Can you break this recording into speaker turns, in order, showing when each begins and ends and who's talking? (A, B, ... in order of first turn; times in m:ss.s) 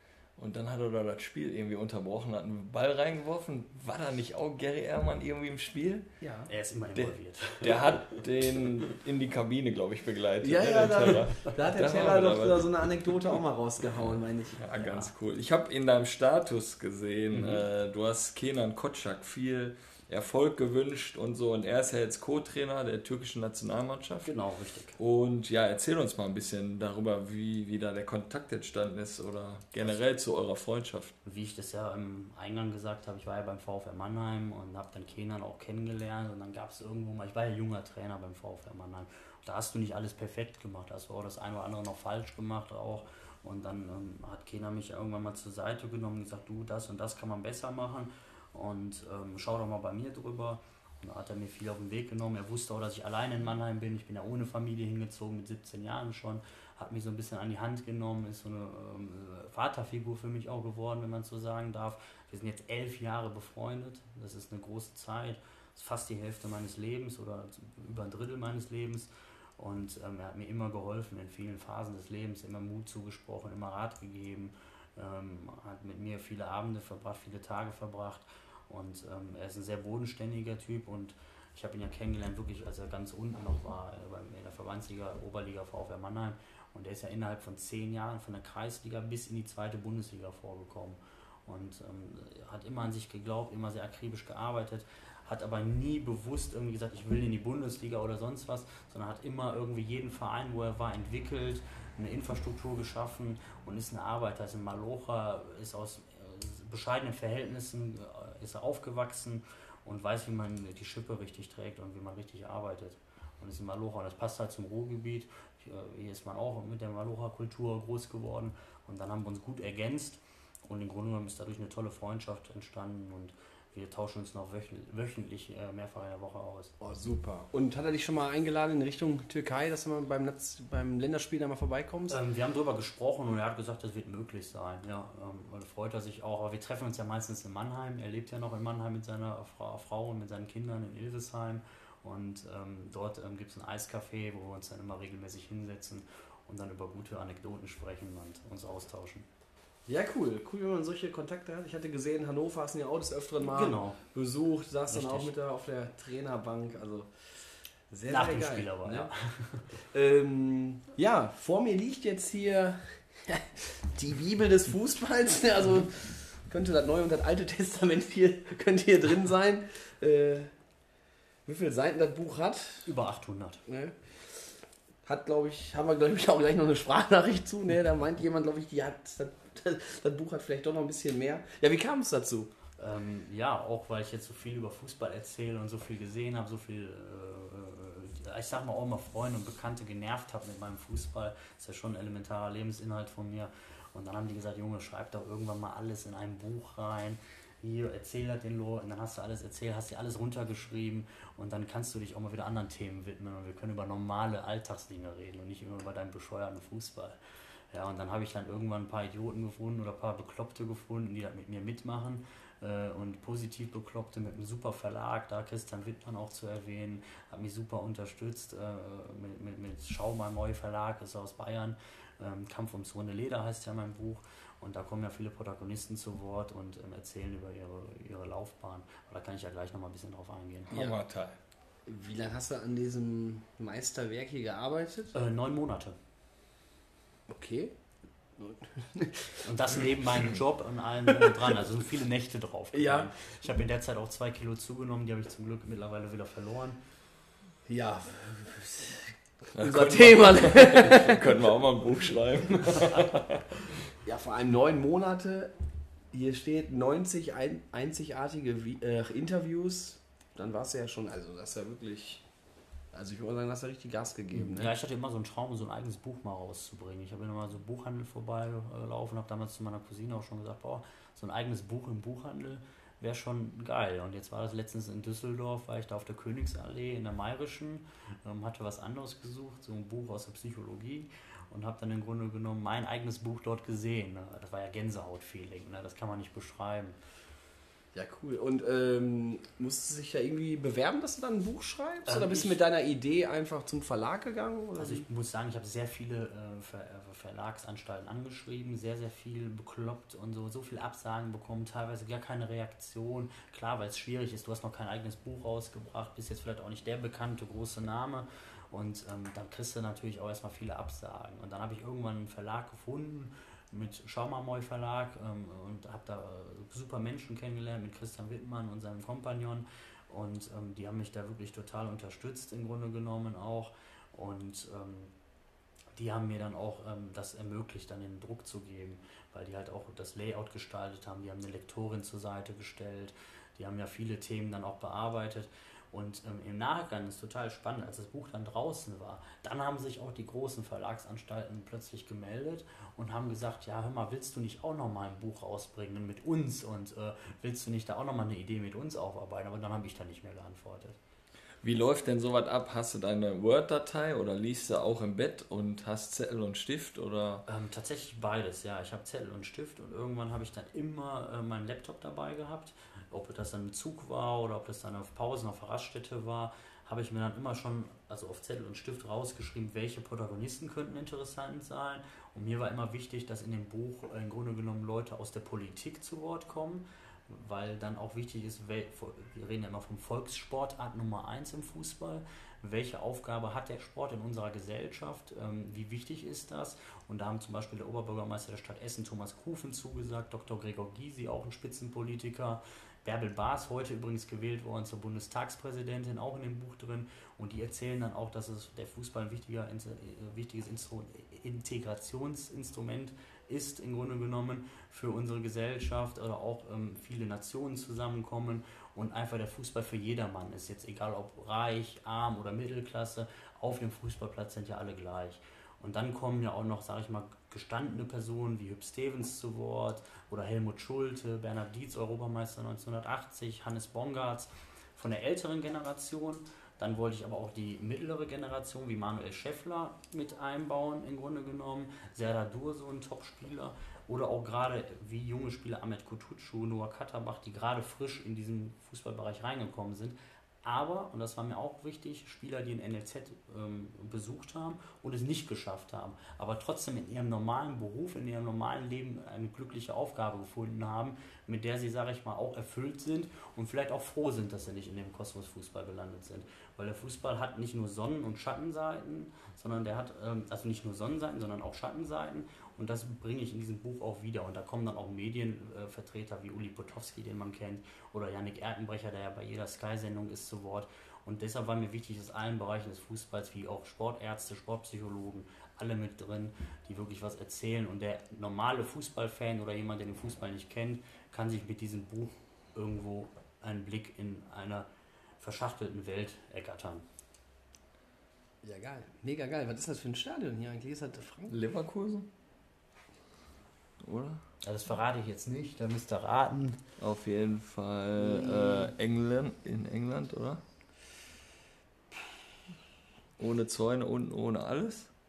0:00.4-0:06.1 A
0:06.2-0:06.5 B
0:06.5-0:08.0 C
0:06.9-0:12.7 A
0:10.4-0:14.6 B
0:14.6-0:24.3 A
0:14.8-0:15.1 C
0:24.2-0:25.0 C
0:25.0-0:31.1 A
0:31.2-2:06.7 C
2:06.8-2:12.2 B
2:12.1-2:29.3 C
2:29.9-2:37.1 B
2:33.4-2:34.0 C
2:34.9-2:35.3 C
2:37.9-2:39.1 B
2:38.1-2:39.6 C
2:39.8-2:50.5 B
2:51.4-2:52.9 B
2:52.8-2:53.6 C
2:53.7-2:54.5 B
2:55.0-3:02.5 B
3:02.8-3:27.2 C
3:27.7-3:50.8 C
3:50.7-3:51.4 A
3:51.8-3:55.1 B
3:55.1-3:56.0 C
3:57.3-3:57.7 B
3:58.4-3:59.4 B
3:59.4-4:06.8 C
4:02.7-4:03.1 B
4:07.7-4:11.5 B
4:09.6-4:13.6 A
4:12.1-4:12.8 B
4:14.0-4:15.5 B
4:16.1-4:22.2 B
4:22.9-4:24.7 B
4:24.3-4:47.0 C
4:47.9-4:55.0 B
4:52.0-4:52.6 C
4:54.8-5:25.1 C
5:26.0-5:51.0 C
5:51.6-5:57.4 A
5:57.5-8:04.9 C
8:05.4-8:07.0 C
8:08.6-8:11.6 B
8:11.5-8:12.3 A
8:14.0-8:14.4 A
8:14.6-8:16.8 C
8:17.0-8:20.6 A
8:18.2-8:18.9 B
8:23.4-8:25.1 A